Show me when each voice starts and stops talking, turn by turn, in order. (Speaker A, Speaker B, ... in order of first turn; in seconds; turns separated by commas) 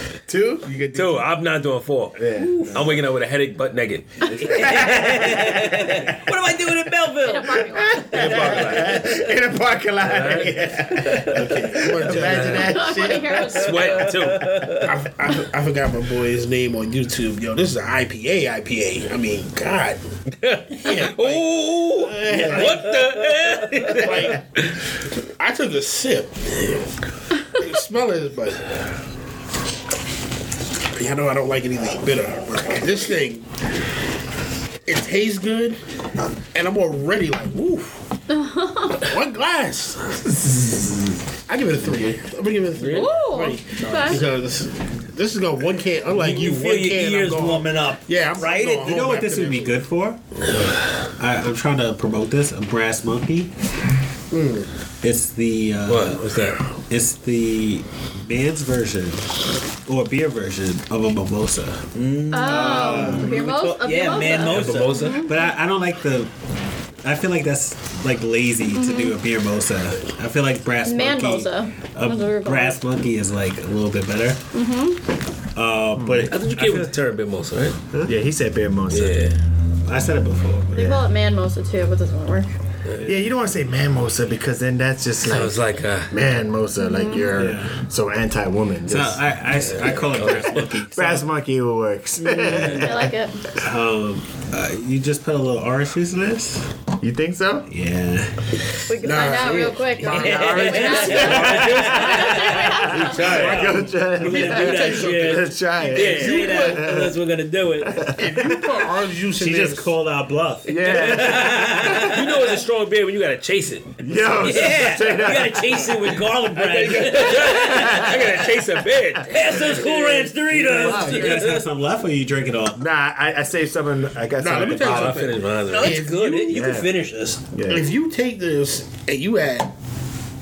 Speaker A: 0.3-1.3, Speaker B: 0.9-5.3, Speaker A: 2.1-2.9, Speaker C: 2.3-3.0, Speaker C: 4.2-8.7, Speaker A: 4.8-5.8, Speaker D: 7.2-8.6, Speaker A: 7.7-13.5, Speaker B: 8.0-9.2, Speaker E: 8.6-8.8, Speaker B: 10.0-11.4, Speaker E: 11.3-12.7, Speaker B: 12.0-12.8, Speaker D: 12.4-14.4, Speaker B: 13.4-14.9, Speaker C: 14.3-14.8, Speaker E: 14.8-20.0, Speaker B: 20.4-24.4, Speaker E: 20.7-22.9, Speaker E: 23.8-24.4, Speaker E: 25.4-26.4, Speaker E: 27.5-28.6, Speaker E: 30.9-33.5, Speaker E: 34.9-35.8, Speaker E: 36.5-37.9, Speaker D: 38.3-39.1, Speaker E: 39.0-40.1, Speaker E: 41.5-49.8, Speaker B: 42.8-43.1, Speaker D: 42.9-44.2, Speaker C: 43.7-44.2, Speaker C: 46.1-49.1, Speaker F: 48.8-50.2, Speaker B: 50.5-50.8, Speaker F: 51.2-53.5, Speaker E: 54.3-54.7, Speaker F: 55.0-63.4, Speaker B: 55.9-56.6, Speaker C: 61.9-65.1, Speaker D: 62.3-65.6, Speaker B: 64.3-65.2, Speaker F: 65.2-66.3, Speaker F: 67.0-74.5, Speaker D: 68.7-69.2, Speaker D: 70.8-72.8, Speaker D: 74.5-75.0, Speaker F: 75.5-76.9, Speaker A: 76.0-76.3, Speaker B: 76.3-77.8, Speaker A: 78.0-79.2, Speaker B: 78.9-79.4, Speaker F: 79.8-80.9, Speaker D: 80.7-82.5, Speaker A: 80.7-81.1, Speaker B: 82.8-83.1, Speaker A: 83.0-89.2, Speaker B: 85.2-86.2, Speaker D: 86.8-87.4, Speaker F: 87.3-87.8, Speaker F: 88.8-91.3, Speaker B: 89.5-90.8, Speaker A: 90.9-93.2, Speaker F: 92.4-92.8, Speaker D: 92.4-93.5, Speaker F: 93.6-96.7, Speaker A: 97.0-97.7, Speaker F: 97.7-98.5, Speaker D: 98.9-103.1, Speaker E: 99.0-99.8, Speaker C: 99.1-107.9, Speaker A: 100.0-107.2, Speaker B: 100.7-103.9, Speaker E: 104.2-106.8, Speaker B: 104.5-106.8, Speaker A: 107.8-108.8, Speaker E: 108.2-109.9, Speaker F: 109.4-110.8, Speaker A: 110.7-112.4, Speaker C: 110.9-112.2, Speaker B: 110.9-114.9, Speaker A: 114.0-116.1, Speaker C: 114.3-118.2, Speaker B: 116.5-121.6, Speaker A: 117.6-119.4, Speaker C: 119.3-121.6, Speaker F: 120.6-122.8, Speaker A: 122.7-125.3, Speaker E: 124.4-126.7, Speaker B: 124.5-126.1, Speaker C: 125.7-127.4, Speaker A: 126.5-127.0, Speaker A: 127.5-127.9, Speaker E: 127.7-129.7